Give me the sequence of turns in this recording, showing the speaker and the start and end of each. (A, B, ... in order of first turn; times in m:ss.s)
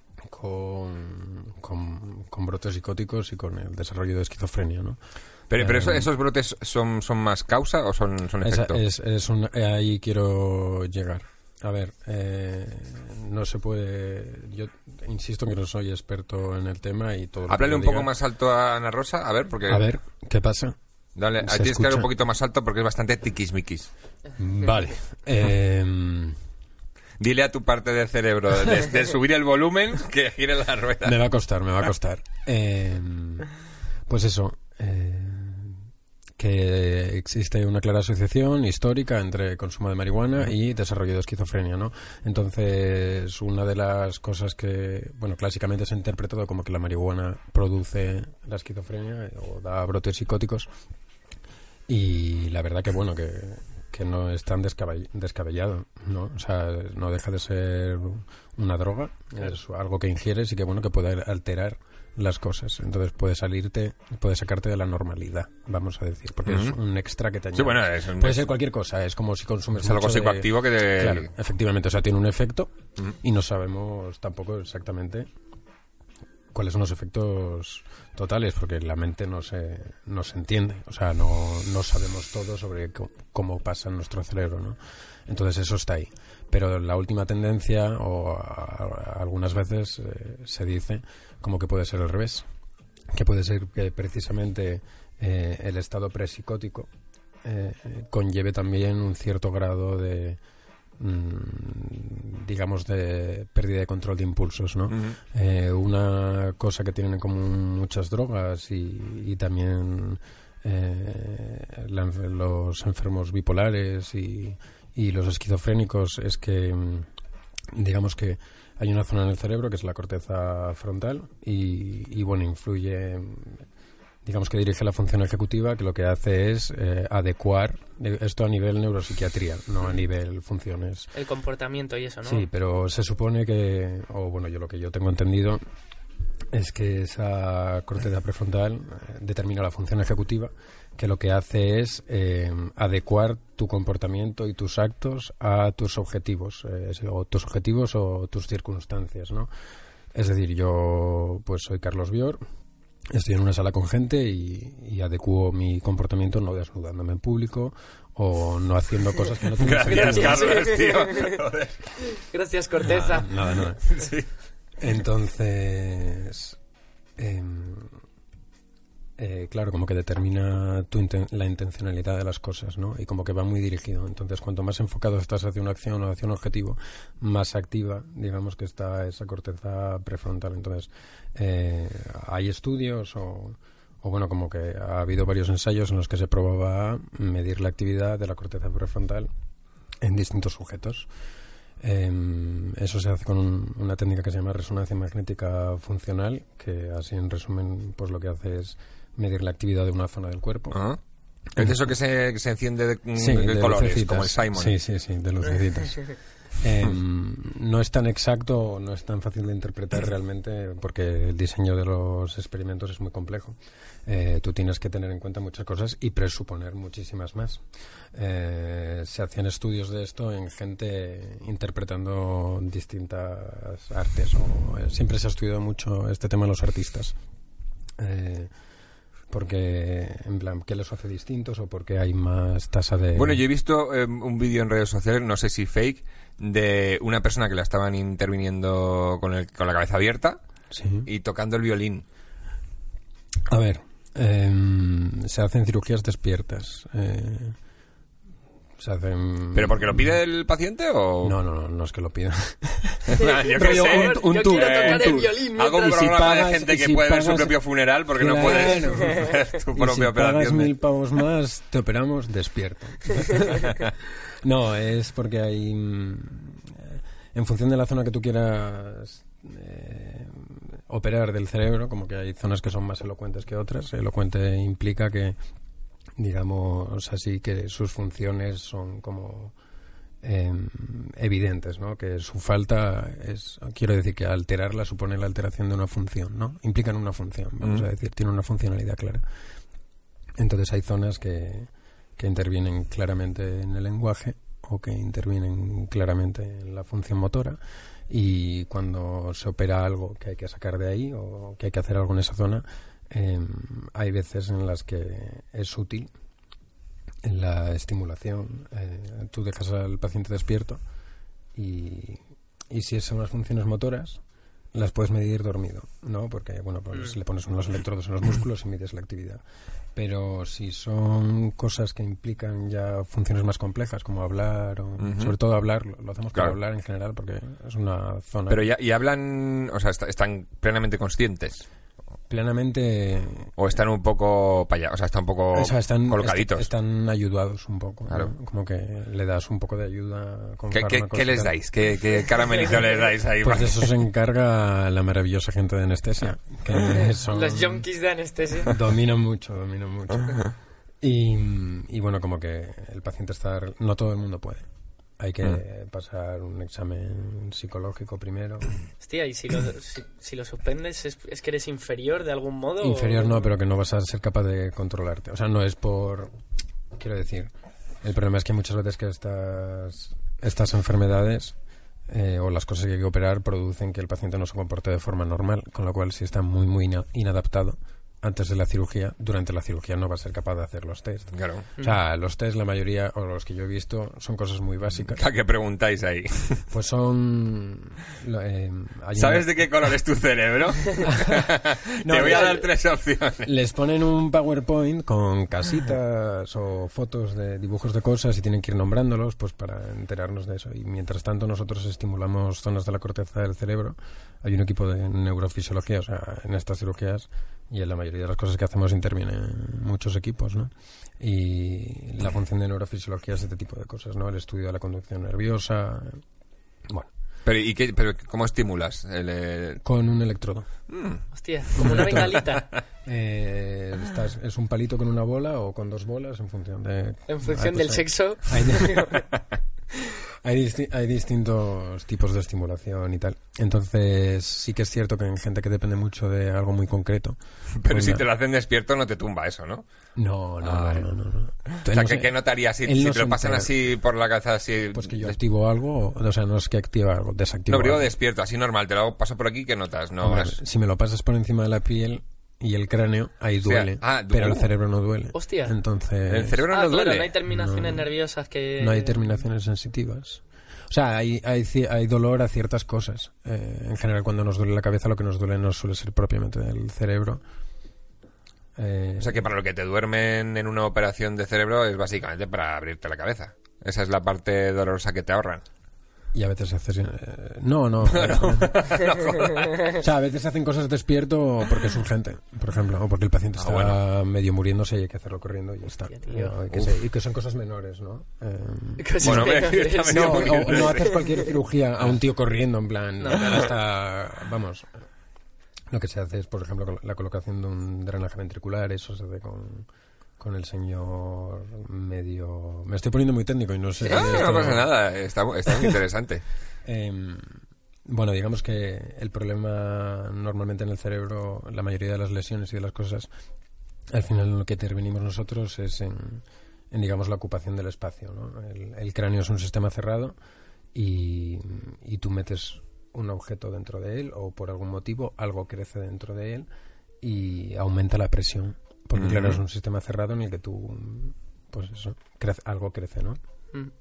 0:00.2-0:05.0 A
0:05.5-0:08.8 B
0:05.6-0:06.1 A
0:08.4-0:18.1 A
0:17.5-0:19.9 B
0:19.7-0:20.8 A
0:21.2-0:23.9 B
0:21.4-0:22.1 A
0:24.4-0:26.4 A
0:27.2-0:31.2 B
0:31.0-0:33.5 A
0:34.1-0:35.8 A
0:36.4-0:50.7 A
0:51.9-1:15.3 A
1:06.5-1:06.8 B
1:07.6-1:08.5 B
1:09.8-1:11.3 B
1:16.5-1:32.5 A
1:33.1-1:36.9 A
1:37.4-1:40.4 A
1:41.0-1:57.1 A
1:57.7-2:03.6 A
2:04.2-2:11.1 A
2:11.1-2:12.5 C
2:12.3-2:15.6 A
2:16.5-2:29.5 A
2:30.1-2:32.4 A
2:33.1-2:40.6 A
2:39.6-2:41.8 B
2:39.8-2:41.4 C
2:42.0-2:43.3 C
2:42.8-2:43.9 A
2:43.9-2:44.3 B
2:44.8-2:46.6 A
2:47.2-2:48.0 A
2:49.2-3:09.3 A
3:10.0-3:11.1 A
3:11.8-3:20.8 A
3:20.7-3:21.0 B
3:21.6-3:21.8 A
3:21.6-3:24.8 B
3:23.2-3:47.2 A
3:48.0-3:48.5 A
3:49.3-3:53.4 A
3:53.2-4:00.4 B
4:00.7-4:01.1 A
4:01.1-4:02.0 B
4:03.5-4:07.6 A
4:08.8-4:10.2 A
4:09.6-4:11.4 B
4:11.2-4:15.3 A
4:13.1-4:20.7 B
4:13.2-4:16.2 C
4:15.9-4:17.6 A
4:18.2-4:35.4 A
4:36.2-4:39.6 A
4:40.2-4:49.2 A
4:50.4-5:06.1 A
5:07.2-5:10.8 A
5:11.6-5:14.2 A
5:14.7-5:19.4 A
5:20.0-5:28.6 A
5:25.0-5:25.4 B
5:28.5-5:31.6 B
5:32.3-5:33.5 A
5:33.6-5:36.7 B
5:35.5-5:41.5 A
5:40.7-5:43.9 B
5:43.4-5:47.8 A
5:47.3-5:48.8 C
5:48.6-5:50.4 A
5:51.0-5:54.7 A
5:55.2-5:58.7 A
5:59.0-6:03.5 C
6:02.8-6:06.3 A
6:06.9-6:07.5 A
6:08.0-6:11.6 A
6:12.1-6:25.2 A
6:21.3-6:21.7 B
6:25.1-6:26.6 B
6:26.7-6:29.5 A
6:29.2-6:33.5 B
6:31.0-6:31.5 A
6:32.0-6:32.7 A
6:33.4-6:56.2 A
6:57.5-6:59.8 B
6:59.8-7:00.7 A
7:00.9-7:01.2 B
7:01.3-7:02.7 C
7:01.8-7:02.2 B
7:01.8-7:02.4 A
7:03.0-7:09.2 A
7:07.3-7:09.3 C
7:10.4-7:18.2 A
7:17.8-7:19.8 B
7:20.2-7:23.7 A
7:20.6-7:21.1 B
7:21.7-7:25.4 B
7:24.9-7:28.1 A
7:27.7-7:30.6 B
7:30.2-7:36.6 A
7:33.6-7:34.7 B
7:35.3-7:35.7 C
7:36.3-7:37.4 B
7:36.7-7:39.4 C
7:37.5-7:38.0 A
7:38.8-7:47.4 A
7:48.8-7:49.4 A
7:49.2-7:55.6 B
7:56.3-7:59.1 A
7:58.1-8:00.0 B
7:59.7-8:00.0 C
7:59.9-8:14.9 A
8:03.6-8:04.0 B
8:06.1-8:06.6 C
8:09.0-8:11.4 C
8:09.2-8:11.2 B
8:13.2-8:13.7 C
8:15.9-8:19.9 A
8:20.4-8:24.9 A
8:24.1-8:26.4 B
8:26.8-8:33.3 A
8:34.1-8:40.3 A
8:40.9-8:46.7 A
8:47.2-8:53.4 A
8:49.2-8:49.6 B